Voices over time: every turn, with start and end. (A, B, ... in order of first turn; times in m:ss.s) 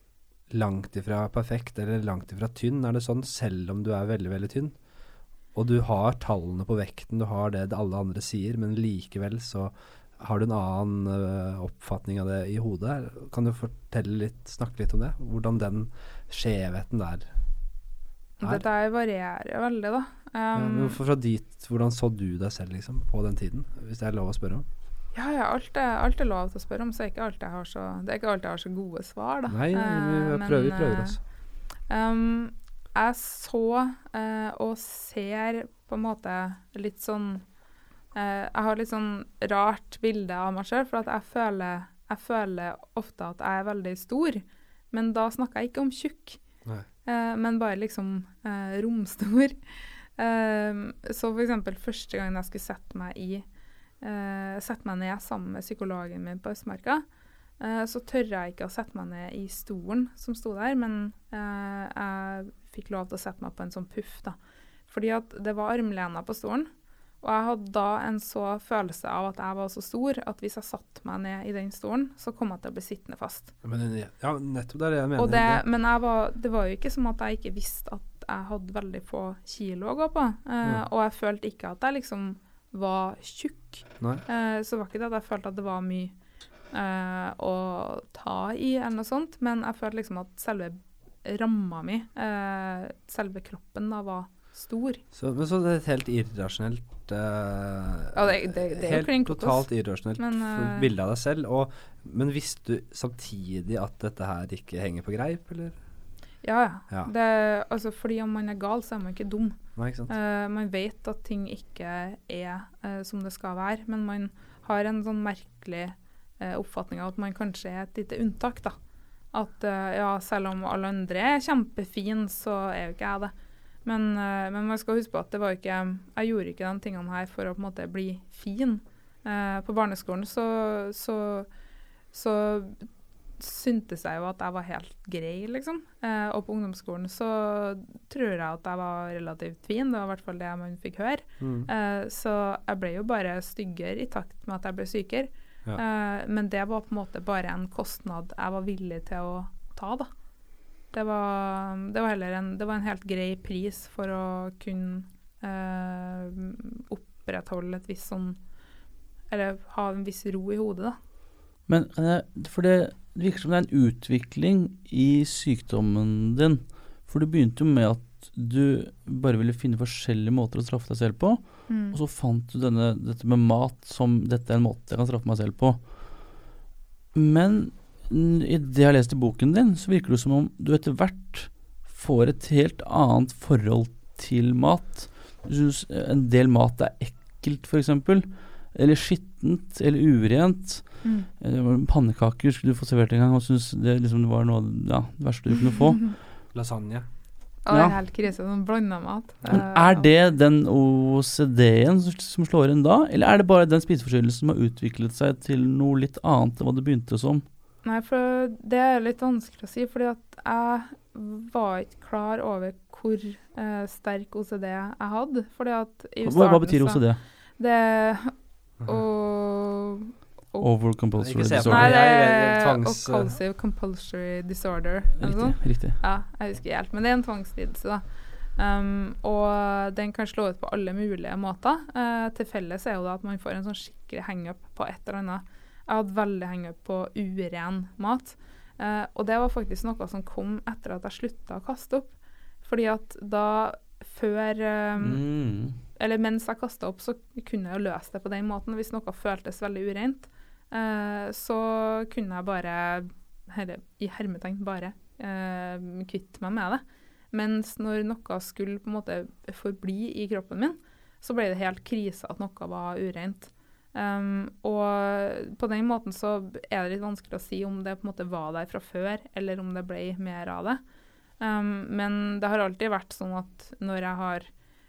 0:00.5-0:04.7 A
0:05.5-0:17.3 A
0:18.4-0:21.0 B
0:20.6-0:24.6 A
0:25.1-0:31.2 B
0:29.5-0:31.2 A
0:31.9-0:37.4 B
0:38.1-0:46.4 B
0:47.0-0:49.6 B
0:50.2-0:53.4 B
0:54.0-0:57.0 B
0:57.6-1:04.4 B
1:04.9-1:06.7 B
1:07.2-1:13.5 B
1:13.6-1:15.6 A
1:15.2-1:26.1 B
1:26.7-1:35.0 B
1:35.1-1:45.8 A
1:38.1-1:40.9 B
1:46.4-1:58.8 B
1:49.8-1:50.1 A
1:59.3-2:03.3 B
2:03.8-2:11.5 B
2:12.1-2:12.9 B
2:13.4-2:30.1 B
2:21.4-2:21.7 A
2:30.9-2:38.4 B
2:39.3-2:41.0 B
2:41.7-2:56.4 C
2:51.7-2:52.0 B
2:57.1-3:16.2 C
3:16.5-3:17.0 A
3:17.6-3:20.1 B
3:19.5-3:27.4 C
3:27.8-3:38.3 B
3:36.2-3:37.2 C
3:38.8-3:40.7 B
3:40.6-3:41.9 C
3:41.2-3:43.3 A
3:41.6-3:48.0 B
3:45.2-3:46.0 C
3:48.5-4:02.1 B
4:02.6-4:05.2 B
4:05.0-4:05.8 C
4:05.9-4:30.8 B
4:31.4-4:34.5 B